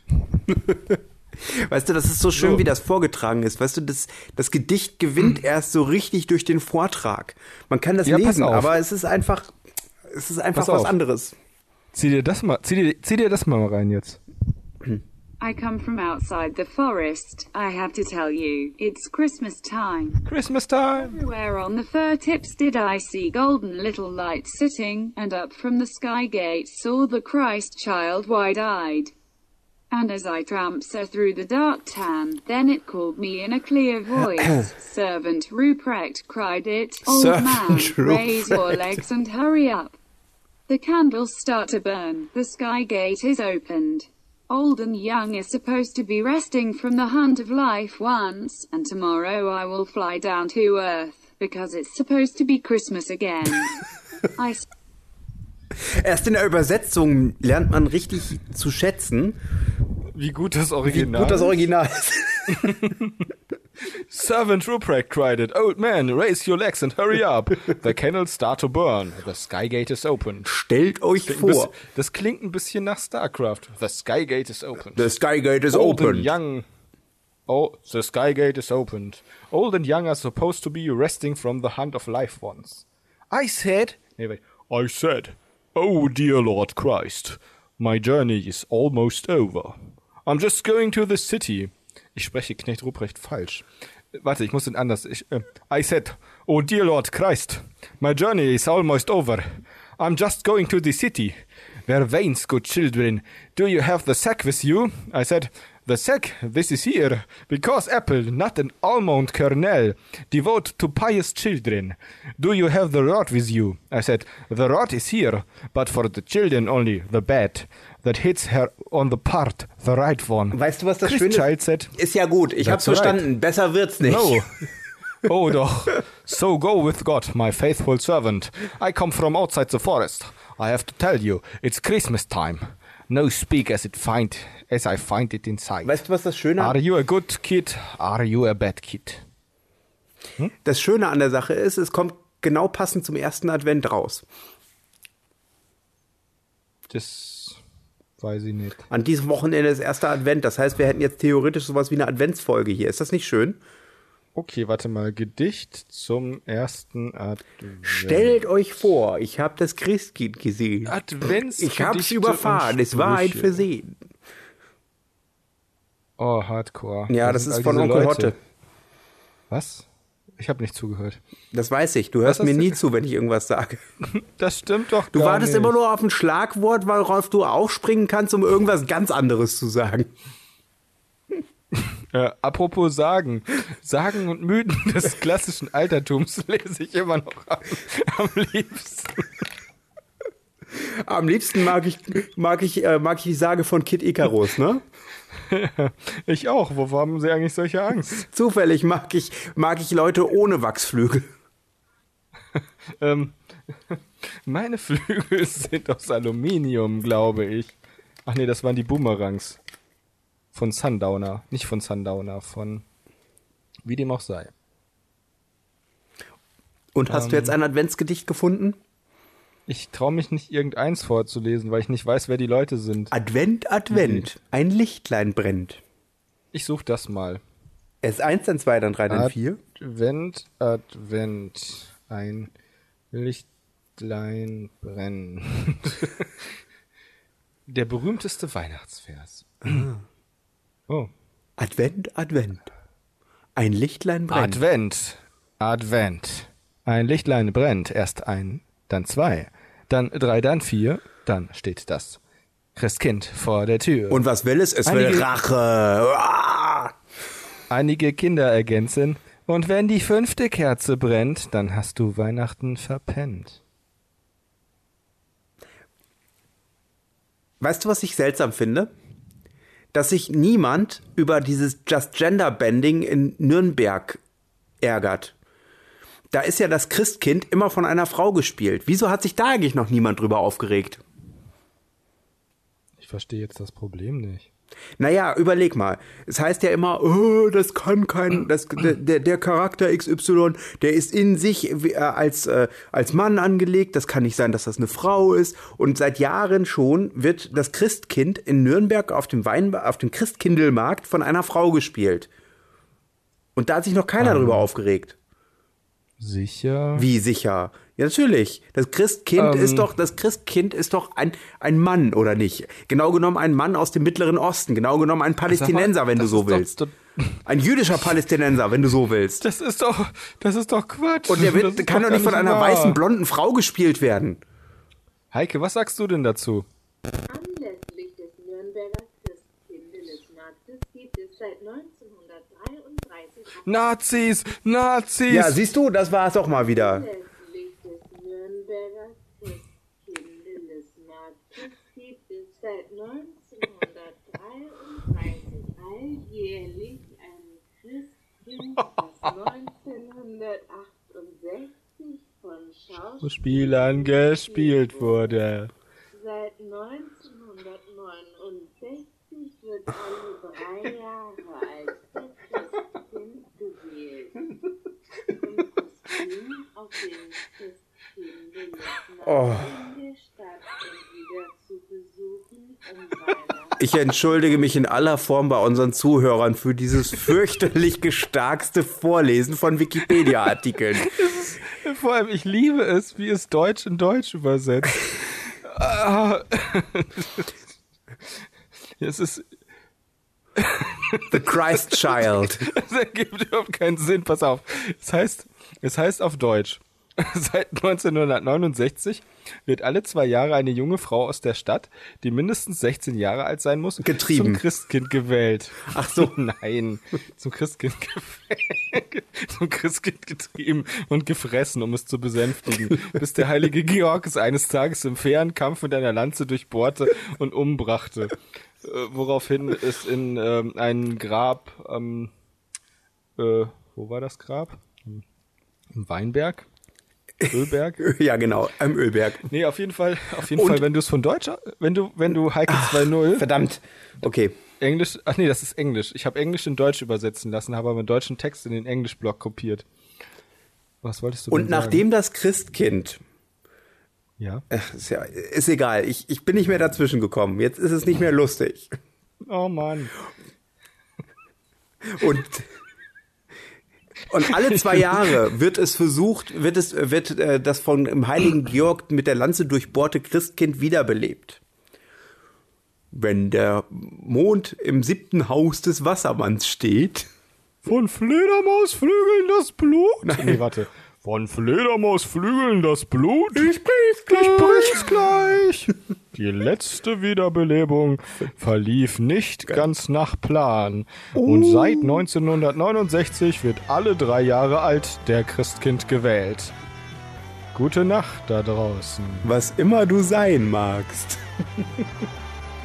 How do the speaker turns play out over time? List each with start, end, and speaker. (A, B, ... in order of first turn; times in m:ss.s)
0:00.4-0:09.6 A
0:02.4-0:02.6 B
0:08.0-0:08.8 B
0:10.1-0:11.4 A
0:10.6-0:10.9 B
0:11.9-0:14.2 B
0:15.4-0:20.3 C
0:20.2-0:21.2 B
0:20.9-0:29.1 C
0:29.9-0:40.0 C
0:34.2-0:34.7 A
0:37.0-0:39.0 A
0:40.7-0:53.8 C
0:54.4-0:54.6 C
0:55.7-0:59.4 A
1:00.1-1:01.6 B
1:00.8-1:02.8 A
1:02.5-1:03.3 B
1:03.8-1:10.5 B
1:10.4-1:11.7 A
1:11.2-1:15.1 B
1:14.9-1:16.3 A
1:15.7-1:16.6 B
1:17.5-2:02.0 B
2:00.5-2:04.4 A
2:02.6-2:03.2 B
2:04.0-2:04.7 B
2:05.2-2:15.9 B
2:15.8-2:16.8 A
2:16.6-2:19.2 B
2:20.6-2:24.2 A
2:26.9-2:27.6 B
2:28.2-2:28.9 B
2:28.9-2:33.6 A
2:34.4-2:38.4 B
2:37.8-2:41.0 A
2:40.8-2:43.6 B
2:41.5-2:43.9 A
2:46.2-2:48.4 B
2:47.1-2:48.4 A
2:49.5-2:49.8 B
2:50.4-2:51.2 B
2:51.5-2:53.8 A
2:52.2-2:52.8 B
2:54.0-2:55.8 B
2:55.1-3:00.1 A
3:01.8-3:09.4 B
3:10.7-3:14.8 A
3:15.5-3:18.3 B
3:18.3-3:21.3 A
3:22.6-3:29.6 B
3:30.5-3:32.8 B
3:33.8-3:34.5 B
3:36.9-3:38.8 A
3:37.1-3:37.6 B
3:39.7-3:43.1 B
3:43.1-3:45.8 A
3:43.9-3:44.3 B
3:46.5-3:47.4 B
3:48.0-3:49.6 A
3:49.1-3:52.5 B
3:53.1-3:53.4 B
3:54.0-3:56.6 B
3:57.7-3:59.9 B
4:01.6-4:02.6 A
4:03.6-4:04.6 A
4:04.3-4:12.2 B
4:12.7-4:14.2 B
4:14.1-4:16.9 A
4:14.8-4:15.3 B
4:17.7-4:23.6 B
4:27.6-4:28.9 A
4:29.9-4:34.2 A
4:34.8-4:35.4 A
4:36.3-4:41.0 A
4:43.0-4:44.5 B
4:45.0-5:02.3 A
5:03.6-5:05.2 A
5:04.2-5:04.7 B
5:06.2-5:07.1 B
5:07.0-5:16.8 A
5:09.4-5:09.9 B
5:15.5-5:17.4 B
5:17.4-5:19.4 A
5:19.4-5:23.0 B
5:21.3-5:24.4 A
5:25.3-5:26.6 B
5:27.3-5:34.1 D
5:33.6-5:35.6 B
5:35.3-5:37.0 A
5:36.5-5:55.4 D
5:53.2-5:55.7 B
5:56.1-6:04.5 D
6:05.3-6:14.5 D
6:09.2-6:09.7 A
6:13.8-6:21.2 A
6:21.0-6:27.6 B
6:29.0-6:29.5 B
6:30.6-7:02.3 B
6:31.3-6:32.7 A
6:44.0-6:44.6 A
6:45.9-6:46.3 A
7:03.4-7:05.2 B
7:05.9-7:06.7 B
7:07.4-7:09.5 A
7:07.5-7:08.0 B
7:09.5-7:13.5 B
7:10.5-7:10.8 A
7:12.7-7:14.6 A
7:14.8-7:19.8 B
7:21.0-7:22.1 B
7:21.5-7:23.2 A
7:24.4-7:24.6 B
7:24.7-7:28.9 A
7:29.4-7:30.2 B
7:32.0-7:32.7 A
7:34.3-7:41.6 A
7:34.3-7:35.4 B
7:43.1-7:47.3 A
7:47.8-7:53.7 B
7:50.2-7:50.6 A
7:53.6-7:55.1 A
7:54.3-8:06.7 B
8:01.4-8:02.2 A
8:07.7-8:09.5 B
8:09.4-8:11.8 A